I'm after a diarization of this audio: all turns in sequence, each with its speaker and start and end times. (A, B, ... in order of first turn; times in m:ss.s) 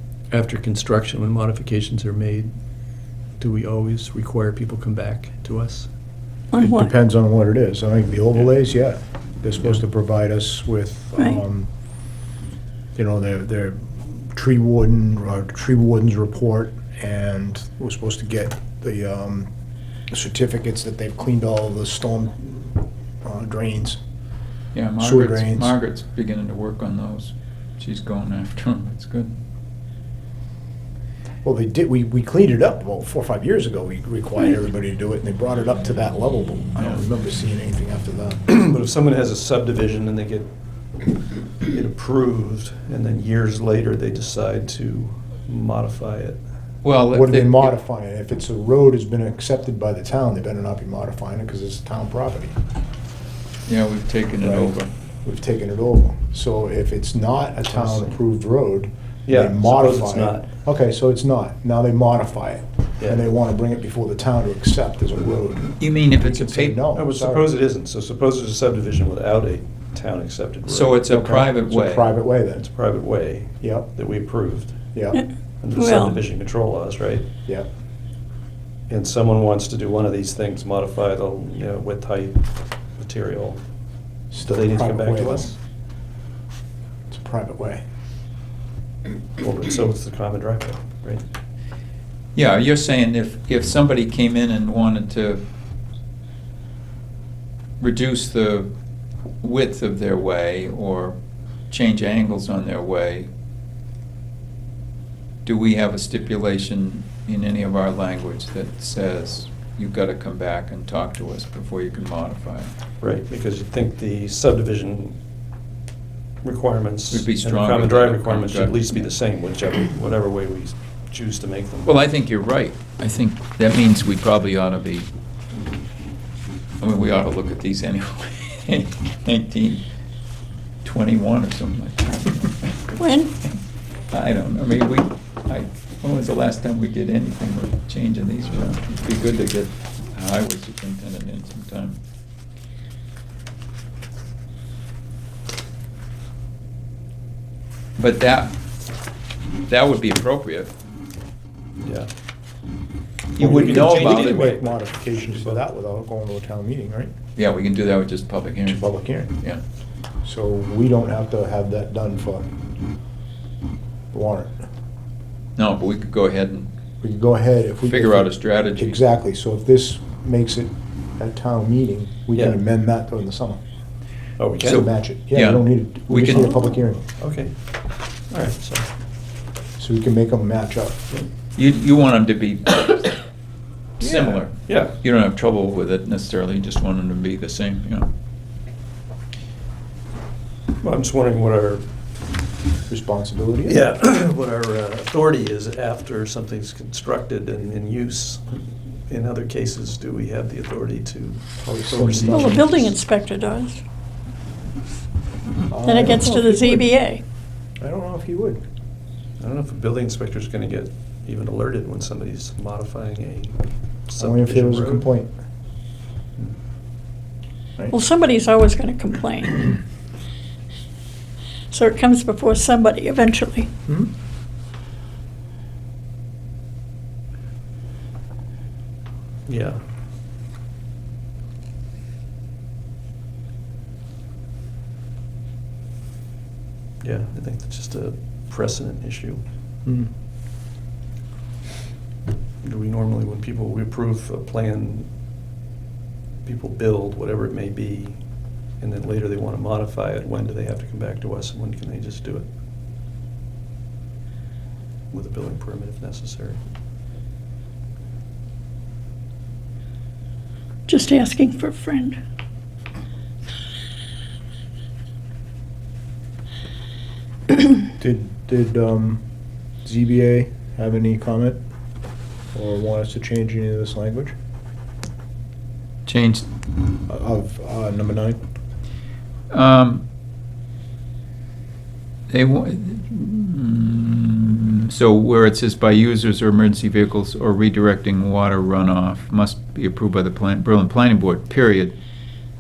0:00.3-0:02.5 A
0:03.4-0:05.9 A
0:06.5-0:06.9 B
0:06.6-0:11.7 C
0:13.0-0:19.5 C
0:20.1-0:24.0 C
0:24.7-0:29.4 D
0:25.0-0:25.8 C
0:31.4-0:38.4 C
0:38.5-0:40.5 A
0:41.7-0:46.4 A
0:46.8-0:47.7 D
0:47.1-0:52.6 C
0:53.7-0:54.9 D
0:54.4-1:07.5 C
0:57.7-0:58.2 A
0:59.3-1:00.5 A
1:03.0-1:03.3 A
1:05.8-1:06.8 D
1:06.9-1:11.0 A
1:10.7-1:12.2 D
1:11.1-1:12.7 C
1:12.6-1:14.8 A
1:13.6-1:13.9 C
1:14.9-1:15.2 C
1:15.6-1:17.3 A
1:15.8-1:16.1 B
1:18.9-1:22.4 A
1:23.0-1:23.6 A
1:24.3-1:25.5 C
1:24.4-1:25.6 A
1:27.1-1:27.8 C
1:29.4-1:31.2 A
1:32.4-1:35.4 D
1:37.8-1:38.7 D
1:39.4-1:41.2 D
1:41.7-1:43.3 D
1:45.4-1:52.7 D
1:53.0-1:55.2 A
1:56.4-2:02.0 A
1:57.1-1:59.1 D
2:01.8-2:05.1 D
2:06.8-2:09.8 D
2:10.8-2:12.7 D
2:13.0-2:13.4 B
2:14.1-2:22.0 D
2:28.0-2:28.5 D
2:29.7-2:30.7 D
2:31.8-2:32.1 A
2:33.4-2:34.6 D
2:33.4-2:35.6 A
2:33.5-2:37.1 C
2:37.4-2:39.6 D
2:38.6-2:39.3 C
2:40.2-2:42.4 C
2:44.1-2:44.6 C
2:45.6-2:46.7 D
2:47.0-2:53.6 C
2:47.9-2:49.0 D
2:52.3-2:52.6 A
2:54.4-2:54.8 A
2:54.6-2:57.0 C
2:54.6-2:56.6 D
2:57.2-2:57.5 A
2:58.3-2:58.9 A
2:59.8-3:01.1 C
3:01.6-3:03.2 D
3:04.0-3:08.1 D
3:04.0-3:04.4 C
3:04.7-3:05.0 A
3:10.8-3:11.8 A
3:12.9-3:13.8 C
3:13.7-3:22.9 A
3:21.6-3:22.7 C
3:22.3-3:23.8 B
3:25.7-3:26.9 C
3:25.8-3:27.2 B
3:27.8-3:28.6 C
3:29.4-3:35.1 A
3:34.2-3:35.3 C
3:37.9-3:39.8 B
3:41.7-3:43.7 B
3:49.5-3:49.8 A
3:57.0-3:59.4 A
4:02.6-4:05.1 A
4:06.4-4:08.2 A
4:08.8-4:12.5 A
4:15.1-4:16.6 A
4:20.9-4:22.2 B
4:28.0-4:29.2 C
4:29.8-4:31.6 C
4:32.5-4:34.3 C
4:36.1-4:36.4 D
4:37.1-4:38.4 C
4:39.5-4:40.0 D
4:42.3-4:52.0 D